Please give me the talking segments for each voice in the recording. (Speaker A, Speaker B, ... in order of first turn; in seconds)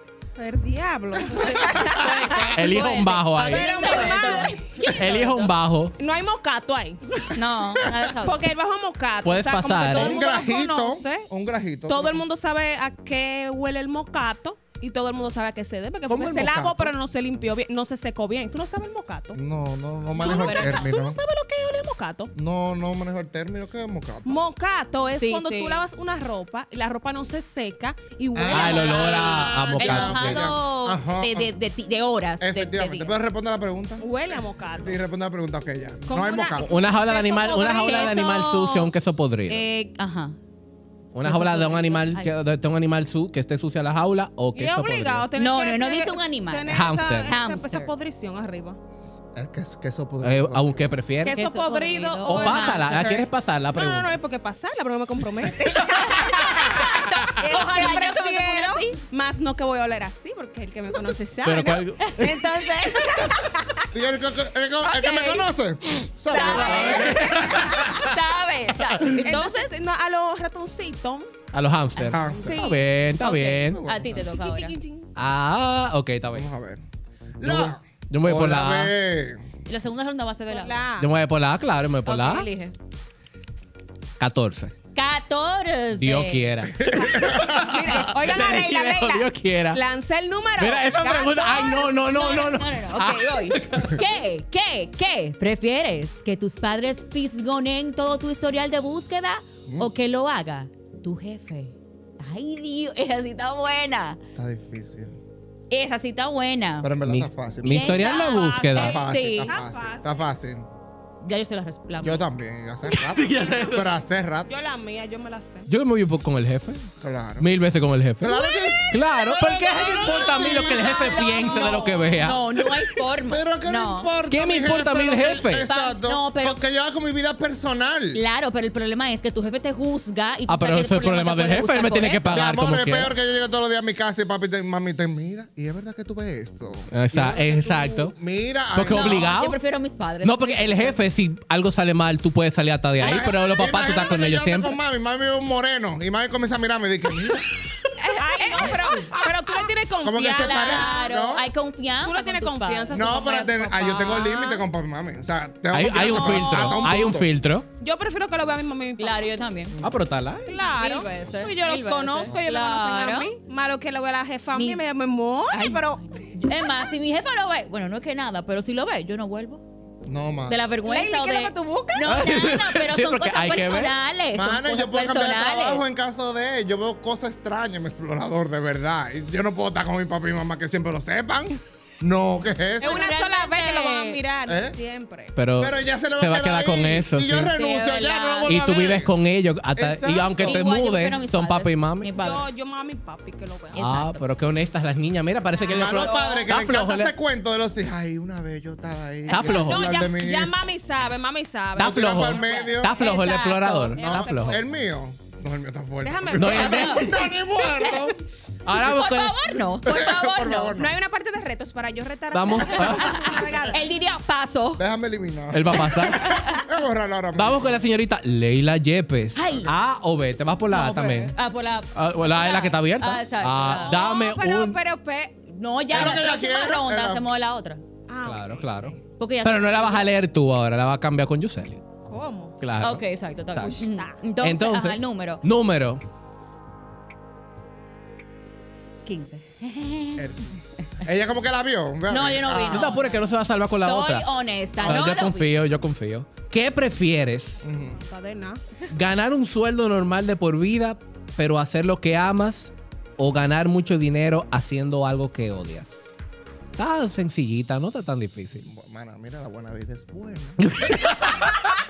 Speaker A: 0.4-2.6, 3.4-5.2, 6.0-7.3, 8.2-11.3, 11.9-19.4, 20.1-22.3, 24.3-29.7, 34.0-35.0, 36.1-38.2, 44.5-48.8, 51.2-53.1, 53.7-63.9, 66.3-67.8, 69.2-71.3, 72.4-72.8, 74.3-75.1, 80.5-81.1, 87.0-91.9, 107.9-110.3, 113.4-113.8, 114.5-115.7, 148.2-151.1, 152.0-154.6, 155.9-157.1, 157.8-159.3, 160.5-166.3, 170.8-172.2, 182.8-185.3, 192.2-193.8, 195.6-196.5, 199.3-204.6, 206.0-207.2, 210.8-213.9, 223.8-225.4, 228.1-228.9, 232.1-232.6, 233.6-234.2, 248.0-248.6
Speaker B: 1.5-5.5, 7.3-8.4, 20.2-20.9, 25.2-25.9, 28.6-33.1, 37.4-38.9, 39.5-40.4, 41.2-42.3, 45.4-47.9, 51.3-53.3, 55.9-59.0, 64.8-65.5, 66.3-69.7, 72.0-74.8, 79.7-80.8, 82.1-82.7, 84.9-86.5, 91.9-104.2, 105.7-106.9, 107.7-109.5, 111.2-112.2, 118.3-124.1, 125.7-126.6, 128.1-132.3, 138.8-141.0, 143.0-143.7, 148.0-149.1, 150.4-153.0, 159.0-159.8, 160.6-163.3, 164.5-164.8, 165.5-169.6, 170.5-175.8, 182.8-184.2, 187.5-188.6, 190.4-192.5, 193.7-194.2, 203.0-204.0, 206.6-208.1, 208.7-210.8, 212.8-214.8, 215.9-216.7, 219.3-219.7, 220.7-224.0, 225.5-227.8, 229.2-230.1, 232.8-235.4, 239.1-240.2, 242.1-243.3, 243.8-245.5
Speaker C: 2.5-6.0, 9.2-10.2, 28.5-30.6, 36.6-39.6, 41.1-45.3, 46.7-47.4, 50.2-51.4, 52.2-54.2, 61.4-62.5, 66.5-68.1, 71.5-73.8, 75.2-76.5, 77.4-78.9, 81.0-82.5, 84.2-84.7, 86.0-89.8, 90.6-94.0, 107.0-109.0, 112.9-113.9, 115.7-122.9, 124.3-125.7, 130.5-133.1, 136.9-138.2, 138.7-139.6, 140.2-144.8, 155.7-157.7, 159.8-160.5, 172.1-173.9, 185.3-187.6, 188.5-192.1, 193.8-197.1, 199.3-199.9, 201.8-204.6, 206.3-207.1, 208.7-209.6, 212.3-213.4, 215.5-216.5, 217.3-221.3, 221.9-224.8, 228.2-231.8, 232.6-233.0, 234.4-236.0, 242.7-244.3, 244.8-247.7, 248.9-256.1, 256.8-258.7, 260.6-261.6
Speaker D: 9.9-12.2, 16.1-16.9, 19.3-21.2, 22.4-24.4, 28.3-31.5, 32.4-34.1, 34.7-36.7, 49.1-50.9, 63.9-68.0, 68.9-69.2, 72.1-72.6, 73.6-74.3, 76.3-76.8, 77.4-79.4, 86.8-87.8, 104.4-105.2, 106.8-108.0, 108.7-110.7, 112.0-114.5, 117.0-117.5, 118.2-121.3, 123.3-128.2, 132.3-139.3, 143.0-147.5, 150.0-151.5, 152.9-157.3, 170.0-170.6, 174.3-183.1, 184.5-184.8, 185.6-189.1, 189.8-190.6, 195.7-200.5, 201.8-203.0, 204.0-208.2, 209.8-211.0, 214.8-217.8, 219.4-219.8, 225.9-227.3, 240.2-243.0, 244.8-245.2, 247.6-248.0, 258.6-261.0